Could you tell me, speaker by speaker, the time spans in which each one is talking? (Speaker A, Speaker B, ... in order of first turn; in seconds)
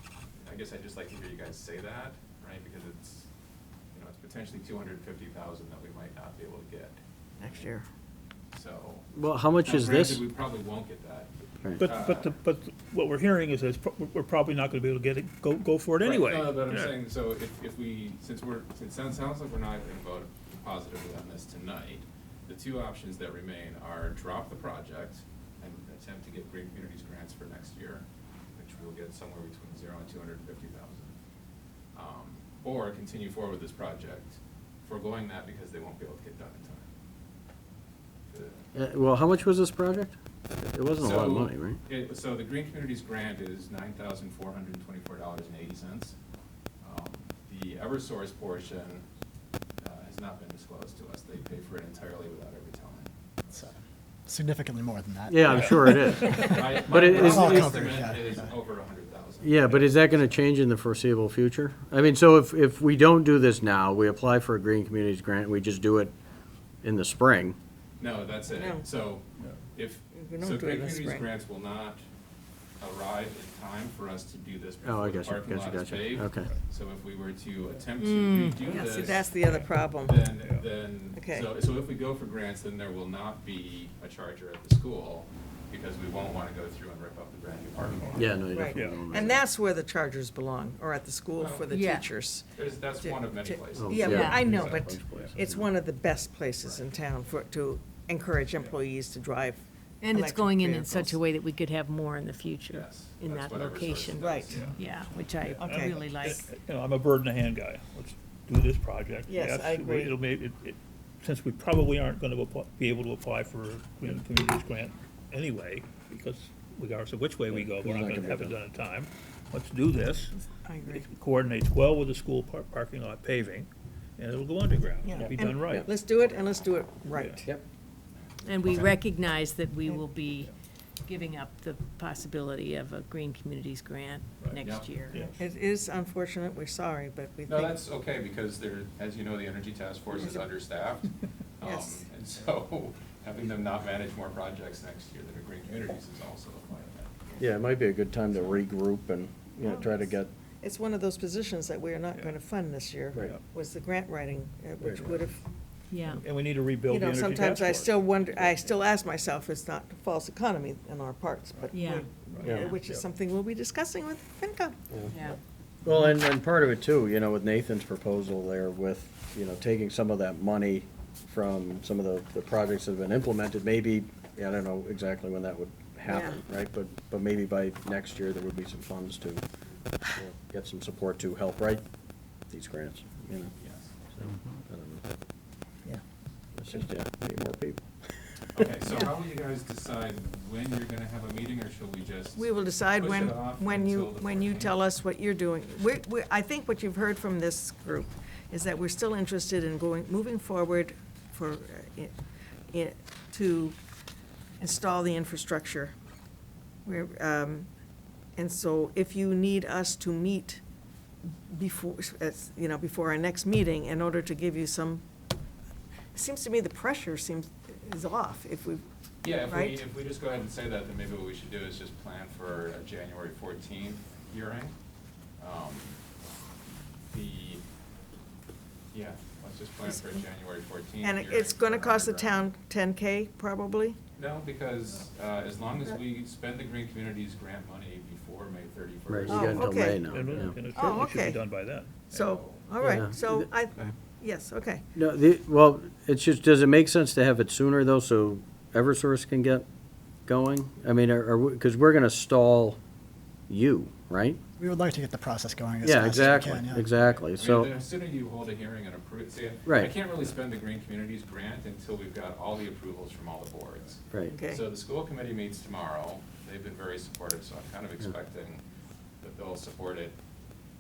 Speaker A: 0.4-3.3, 3.9-7.7, 8.5-9.1, 9.6-12.4, 16.0-31.1, 31.9-36.9, 38.3-38.7, 41.0-46.1, 46.8-49.0, 49.8-53.7, 56.2-60.4, 68.0-72.0, 72.8-88.4, 91.4-91.7, 92.5-94.8, 96.6-96.9, 102.7-104.8, 128.6-128.9, 134.5-134.9, 137.5-147.6, 183.6-183.9, 188.6-194.8, 219.2-224.8, 225.4-226.0, 227.1-227.6, 228.9-232.4, 234.2-240.5, 242.1-242.6, 256.9-268.6, 269.2-270.2
Speaker B: 7.4-7.9, 68.5-68.8, 70.1-71.3, 78.7-80.2, 81.2-81.5, 88.5-101.2, 104.2-104.5, 105.6-106.1, 109.3-110.2, 120.6-121.1, 125.0-127.5, 135.3-137.8, 140.2-140.5, 141.6-142.1, 149.6-150.1, 150.6-155.4, 156.9-164.8, 176.1-176.4, 192.4-202.1, 202.7-203.8, 204.6-205.9, 206.8-207.7, 208.4-210.6, 211.5-215.0, 216.1-218.8, 219.4-219.8, 229.8-230.2, 231.0-234.0, 239.3-240.2, 240.7-241.4, 242.1-244.8, 264.2-264.6
Speaker C: 9.1-10.2, 38.7-41.8, 55.3-57.7, 59.4-66.2, 66.8-67.6, 74.8-76.5, 88.1-89.3, 93.8-95.7, 117.5-118.6, 147.4-150.3, 154.8-155.2, 162.4-162.7, 165.8-179.4, 180.0-181.8, 182.5-183.5, 184.1-185.1, 186.6-188.7, 239.1-240.6, 242.8-243.9, 244.9-249.7, 250.3-252.8, 253.5-254.4, 255.8-257.7, 259.7-259.9
Speaker D: 11.8-17.0, 88.7-89.1, 104.5-104.8, 105.4-125.9, 127.1-127.4, 135.1-135.4, 156.1-158.6, 162.3-163.1, 240.0-242.0
Speaker E: 54.3-58.5, 254.6-256.9
Speaker F: 78.0-78.9, 91.7-92.1, 94.0-94.5, 100.0-106.5, 128.4-130.5, 131.1-135.3, 155.9-156.2, 161.7-162.7, 165.1-165.4